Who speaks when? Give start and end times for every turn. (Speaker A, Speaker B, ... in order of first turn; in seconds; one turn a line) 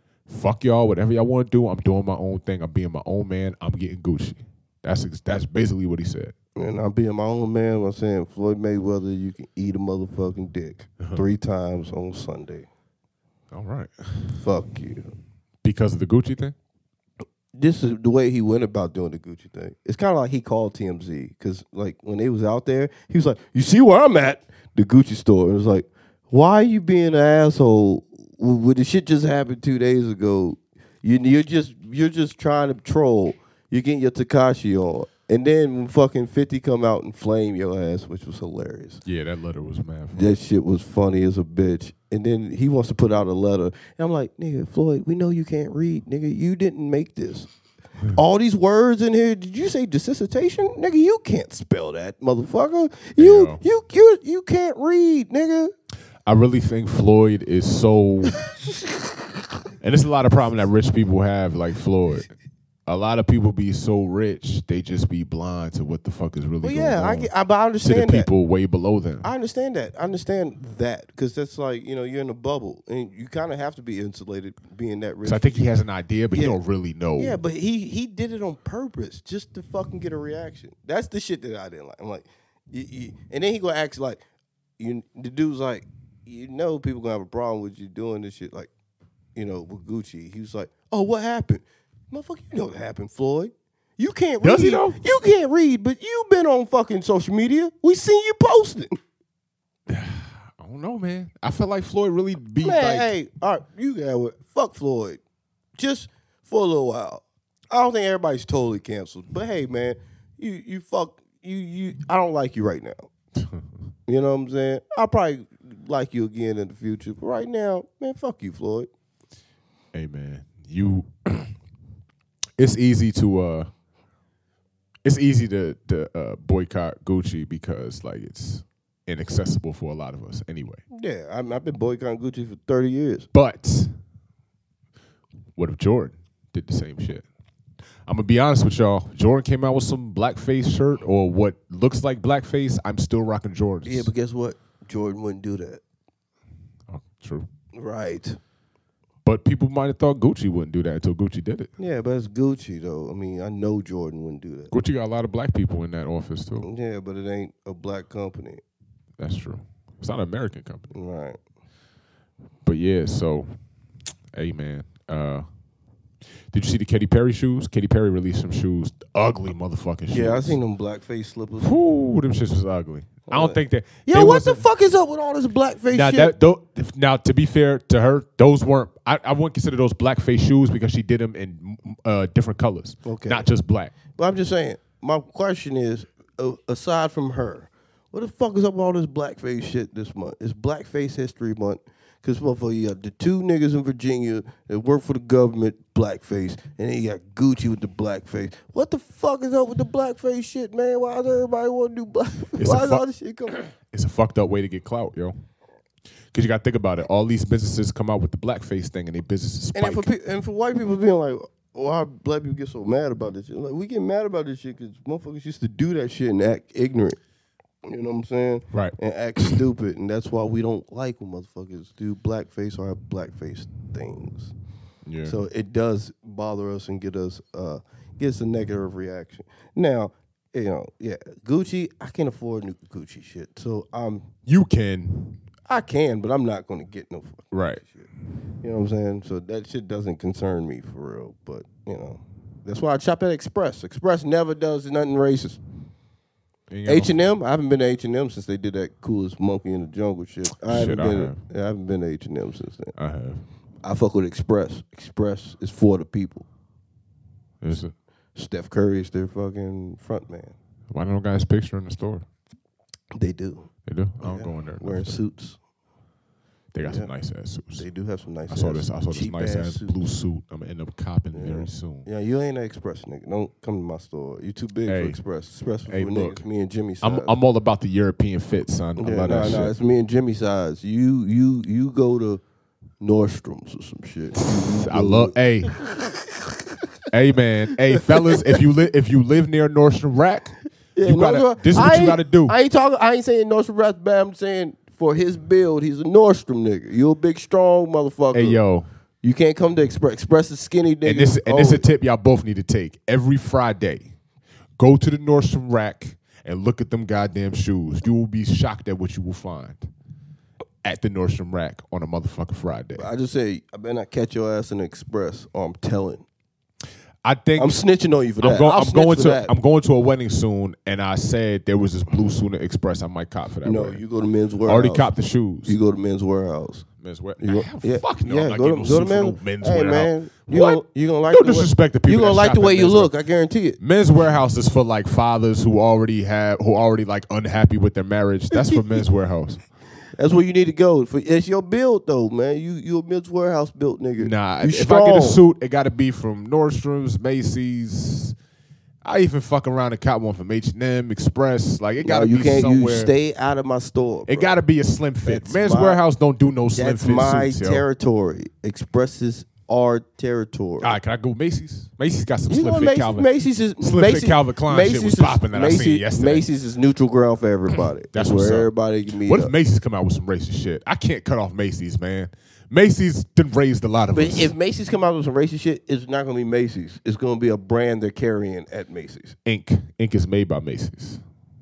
Speaker A: 0.3-6.3
Speaker B: 6.5-12.7
Speaker A: 13.5-14.3
Speaker B: 14.3-15.1
Speaker A: 15.6-16.6
Speaker B: 17.6-39.0
Speaker A: 39.0-40.4
Speaker B: 40.1-47.5
Speaker B: 48.1-55.7
Speaker A: 53.2-53.6
Speaker A: 56.3-58.4
Speaker A: 59.8-62.3
Speaker A: 62.9-67.3
Speaker B: 66.6-68.3
Speaker A: 67.8-69.3
Speaker B: 69.2-75.7
Speaker A: 75.2-77.4
Speaker B: 76.3-76.6
Speaker B: 77.2-84.2
Speaker B: 84.8-88.7
Speaker B: 89.4-99.0
Speaker A: 94.4-95.0
Speaker A: 99.9-103.1
Speaker B: 102.6-105.2
Speaker B: 105.8-113.1
Speaker A: 113.4-113.6
Speaker B: 114.1-118.9
Speaker A: 119.9-121.5
Speaker A: 122.6-123.7
Speaker A: 125.0-130.8
Speaker B: 130.9-133.3
Speaker A: 133.3-133.9
Speaker A: 135.6-137.3
Speaker A: 138.1-144.1
Speaker B: 143.8-145.8
Speaker A: 146.9-147.5
Speaker B: 147.8-148.4
Speaker A: 149.2-151.7
Speaker B: 151.8-154.7
Speaker A: 154.7-156.7
Speaker B: 156.6-158.6
Speaker A: 159.2-160.9
Speaker B: 160.9-161.4
Speaker A: 162.6-163.6
Speaker A: 164.3-165.5
Speaker A: 166.5-170.6
Speaker B: 170.1-171.7
Speaker A: 171.6-174.7
Speaker B: 173.3-176.3
Speaker A: 175.9-183.9
Speaker B: 183.1-183.5
Speaker B: 184.2-203.7
Speaker A: 202.6-203.1
Speaker A: 203.7-205.4
Speaker A: 206.3-210.1
Speaker B: 209.8-217.2
Speaker B: 217.8-224.5
Speaker A: 218.7-219.6
Speaker A: 225.1-225.4
Speaker B: 225.2-234.3
Speaker A: 234.5-235.4
Speaker B: 235.7-238.1
Speaker A: 237.5-237.8
Speaker B: 238.6-245.6
Speaker A: 246.7-247.2
Speaker B: 246.9-252.9
Speaker A: 250.7-251.4
Speaker A: 253.0-253.4
Speaker B: 253.8-256.5
Speaker A: 257.6-257.9
Speaker B: 258.4-260.6
Speaker A: 260.9-262.3
Speaker B: 263.1-263.7
Speaker A: 263.9-265.2
Speaker B: 264.2-265.6
Speaker A: 266.7-267.9
Speaker B: 266.9-267.1
Speaker B: 267.8-269.9
Speaker A: 268.5-272.1
Speaker B: 271.3-277.3
Speaker A: 274.9-275.2
Speaker A: 275.9-276.4
Speaker A: 277.0-279.7
Speaker B: 279.0-282.4
Speaker B: 283.0-286.7
Speaker A: 284.4-285.8
Speaker A: 287.1-292.5
Speaker B: 287.9-288.4
Speaker B: 291.0-298.6
Speaker A: 298.3-298.9
Speaker B: 299.2-301.9
Speaker A: 301.0-304.1
Speaker A: 304.8-309.9
Speaker A: 310.8-313.1
Speaker B: 312.9-316.2
Speaker A: 317.2-317.8
Speaker B: 317.6-319.5
Speaker A: 318.4-324.0
Speaker B: 323.6-325.1
Speaker A: 324.7-325.8
Speaker B: 325.6-326.9
Speaker A: 327.0-333.1
Speaker B: 327.4-333.8
Speaker A: 333.8-339.6
Speaker B: 340.1-345.4
Speaker A: 344.2-348.4
Speaker A: 349.0-353.1
Speaker B: 352.0-354.6
Speaker A: 354.3-357.9
Speaker B: 355.2-356.0
Speaker B: 356.8-360.9
Speaker A: 360.8-363.3
Speaker B: 362.5-369.5
Speaker A: 363.8-366.5
Speaker A: 368.1-374.5
Speaker B: 374.1-379.4
Speaker A: 379.5-381.2